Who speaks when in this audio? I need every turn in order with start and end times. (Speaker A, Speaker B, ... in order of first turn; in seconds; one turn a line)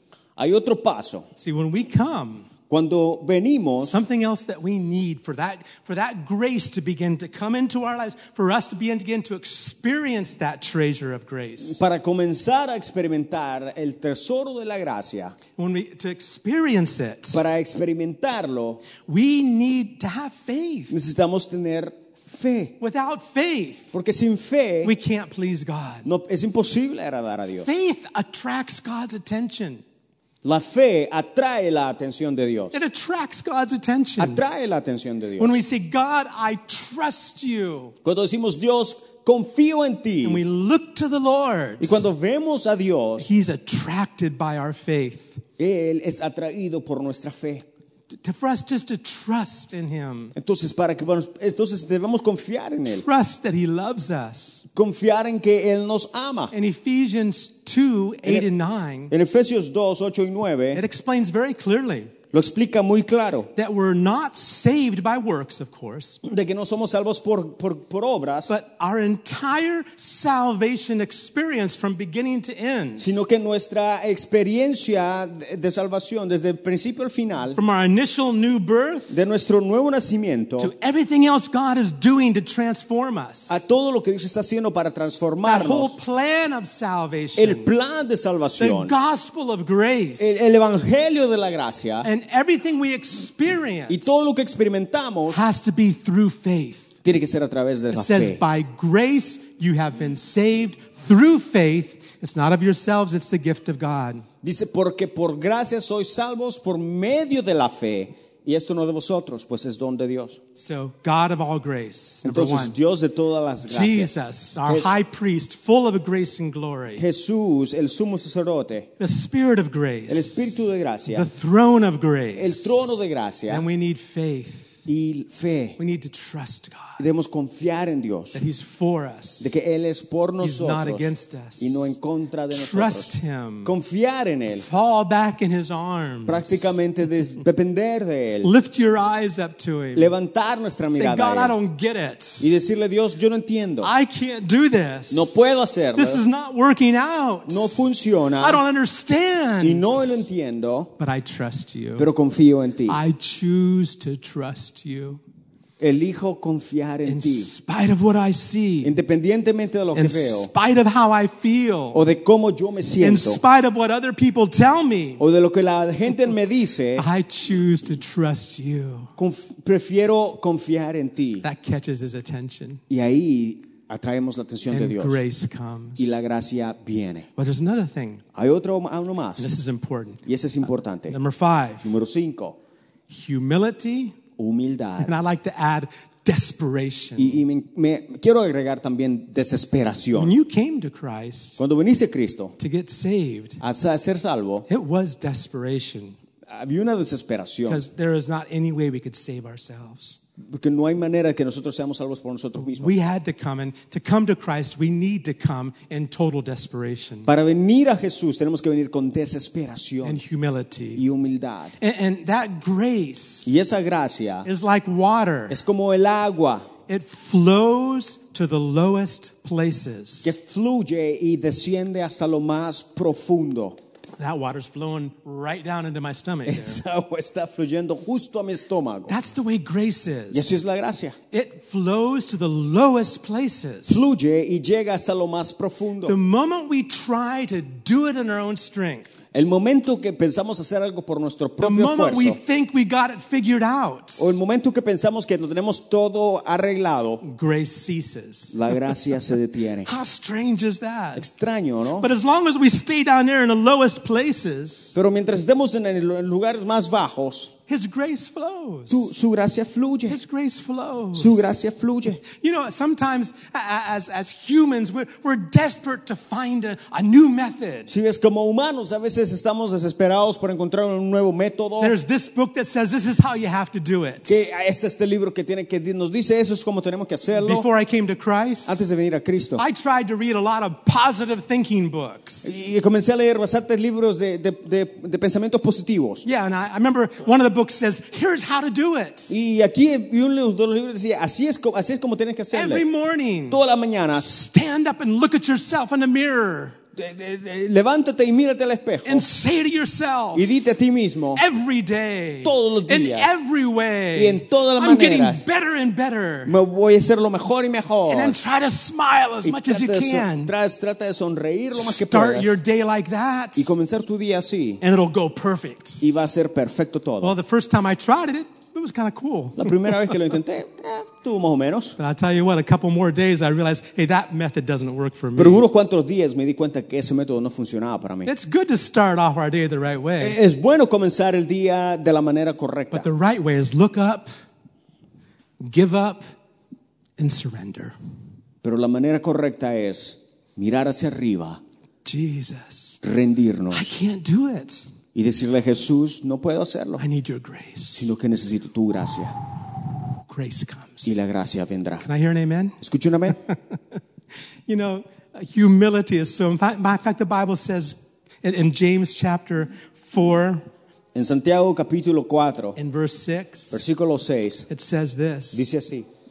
Speaker A: 0.4-1.3
Speaker B: 1.4-2.5
Speaker A: 2.7-4.0
Speaker B: 3.8-11.8
Speaker A: 11.6-15.3
Speaker B: 15.6-17.4
Speaker A: 17.3-18.8
Speaker B: 19.0-20.9
Speaker A: 20.9-22.8
Speaker B: 22.8-23.9
Speaker A: 23.9-24.9
Speaker B: 24.8-26.1
Speaker A: 26.0-27.7
Speaker B: 27.6-29.8
Speaker A: 30.4-32.7
Speaker B: 32.7-34.4
Speaker A: 34.2-35.6
Speaker B: 35.4-37.9
Speaker A: 38.0-40.4
Speaker B: 40.2-42.0
Speaker A: 41.8-43.3
Speaker B: 43.2-45.4
Speaker A: 45.6-47.6
Speaker B: 48.2-50.3
Speaker A: 50.4-53.0
Speaker B: 52.9-54.7
Speaker A: 54.7-56.5
Speaker B: 56.5-59.1
Speaker A: 59.1-60.8
Speaker B: 60.7-62.1
Speaker A: 62.3-63.5
Speaker B: 63.5-66.2
Speaker A: 66.2-68.5
Speaker B: 68.5-73.2
Speaker A: 73.0-77.6
Speaker B: 77.5-79.2
Speaker A: 79.1-80.7
Speaker B: 80.6-83.6
Speaker A: 83.5-86.0
Speaker B: 85.4-87.7
Speaker A: 87.4-88.9
Speaker B: 88.6-90.4
Speaker A: 90.2-92.0
Speaker B: 92.0-94.2
Speaker A: 93.9-95.4
Speaker B: 95.3-96.9
Speaker A: 97.0-98.4
Speaker B: 97.9-104.2
Speaker A: 104.4-110.4
Speaker B: 110.5-112.8
Speaker A: 112.2-114.1
Speaker B: 113.7-117.0
Speaker A: 114.7-114.9
Speaker A: 117.0-118.9
Speaker B: 119.0-124.8
Speaker A: 120.1-121.3
Speaker A: 122.3-123.6
Speaker A: 124.9-125.8
Speaker B: 125.8-127.0
Speaker A: 127.0-128.4
Speaker B: 128.3-129.5
Speaker A: 129.4-133.1
Speaker B: 130.4-131.9
Speaker B: 132.5-133.7
Speaker A: 133.6-134.7
Speaker B: 134.5-136.8
Speaker A: 136.3-138.5
Speaker B: 138.4-140.1
Speaker A: 139.9-141.5
Speaker B: 140.9-142.6
Speaker A: 142.4-143.9
Speaker B: 143.8-147.8
Speaker A: 145.1-146.2
Speaker A: 147.5-148.6
Speaker B: 148.4-150.3
Speaker A: 149.6-150.9
Speaker B: 151.0-152.1
Speaker A: 152.0-153.0
Speaker B: 152.9-155.2
Speaker A: 155.8-157.5
Speaker B: 157.0-158.9
Speaker A: 158.8-160.5
Speaker B: 159.9-162.0
Speaker A: 161.9-163.4
Speaker B: 163.0-165.2
Speaker A: 165.2-167.0
Speaker B: 166.9-169.1
Speaker A: 169.2-171.4
Speaker B: 171.4-172.8
Speaker A: 172.9-175.2
Speaker B: 174.7-176.1
Speaker A: 176.0-177.3
Speaker B: 177.3-178.2
Speaker A: 178.3-179.5
Speaker B: 179.4-180.2
Speaker A: 180.2-181.2
Speaker B: 181.1-181.9
Speaker A: 181.8-182.6
Speaker B: 183.1-184.2
Speaker A: 184.4-185.1
Speaker B: 185.0-187.4
Speaker A: 187.2-190.3
Speaker B: 190.1-191.6
Speaker A: 191.6-192.5
Speaker B: 192.6-193.6
Speaker A: 193.6-194.7
Speaker B: 194.7-196.2
Speaker A: 196.5-197.8
Speaker B: 197.7-200.2
Speaker A: 200.5-202.9
Speaker B: 202.6-207.3
Speaker A: 207.3-210.2
Speaker B: 210.0-211.0
Speaker A: 210.9-211.7
Speaker B: 211.8-213.5
Speaker A: 213.4-214.4
Speaker B: 214.4-215.6
Speaker A: 215.5-216.7
Speaker B: 216.9-220.3
Speaker A: 220.2-223.8
Speaker B: 224.2-226.8
Speaker A: 226.5-229.1
Speaker B: 229.1-230.5
Speaker A: 230.3-231.2
Speaker B: 231.3-234.1
Speaker A: 233.9-236.2
Speaker B: 236.1-239.1
Speaker A: 239.3-242.4
Speaker B: 241.6-244.4
Speaker A: 244.2-247.2
Speaker B: 247.2-249.0
Speaker A: 248.5-249.9
Speaker B: 249.8-251.2
Speaker A: 251.2-252.1
Speaker B: 252.0-254.9
Speaker A: 254.9-257.5
Speaker B: 257.7-259.1
Speaker A: 258.9-260.2
Speaker B: 260.1-261.6
Speaker A: 261.1-262.2
Speaker B: 262.2-267.9
Speaker A: 267.9-271.9
Speaker B: 271.8-274.5
Speaker A: 274.3-277.6
Speaker B: 277.3-278.8
Speaker A: 278.6-279.6
Speaker B: 279.6-282.6
Speaker A: 282.4-286.2
Speaker B: 286.2-289.3
Speaker A: 289.3-292.8
Speaker B: 292.5-296.8
Speaker A: 293.5-294.3
Speaker A: 296.9-299.2
Speaker B: 299.0-300.5
Speaker A: 300.3-301.4
Speaker B: 301.4-306.5
Speaker A: 302.4-303.3
Speaker A: 304.1-305.4
Speaker A: 306.5-308.4
Speaker B: 308.1-310.5
Speaker A: 309.4-312.6
Speaker B: 311.7-313.7
Speaker A: 313.6-314.8
Speaker B: 314.8-316.2
Speaker A: 316.0-317.3
Speaker B: 317.2-320.2
Speaker A: 319.6-321.9
Speaker B: 322.0-325.6
Speaker A: 325.4-328.3
Speaker B: 328.2-330.4
Speaker A: 330.2-333.1
Speaker B: 332.9-334.3
Speaker B: 335.6-336.2
Speaker B: 337.2-337.9
Speaker A: 338.6-341.6
Speaker B: 342.0-343.0
Speaker A: 343.0-343.9
Speaker B: 343.7-344.9
Speaker A: 345.1-347.0
Speaker B: 347.0-348.1
Speaker A: 347.9-349.4
Speaker B: 350.3-351.1
Speaker A: 351.1-352.1
Speaker B: 352.0-352.8
Speaker A: 352.8-353.4
Speaker B: 353.3-354.0
Speaker B: 354.7-360.6
Speaker A: 361.1-362.8
Speaker B: 362.8-363.8
Speaker A: 363.7-364.7
Speaker B: 364.7-365.7
Speaker A: 365.5-366.1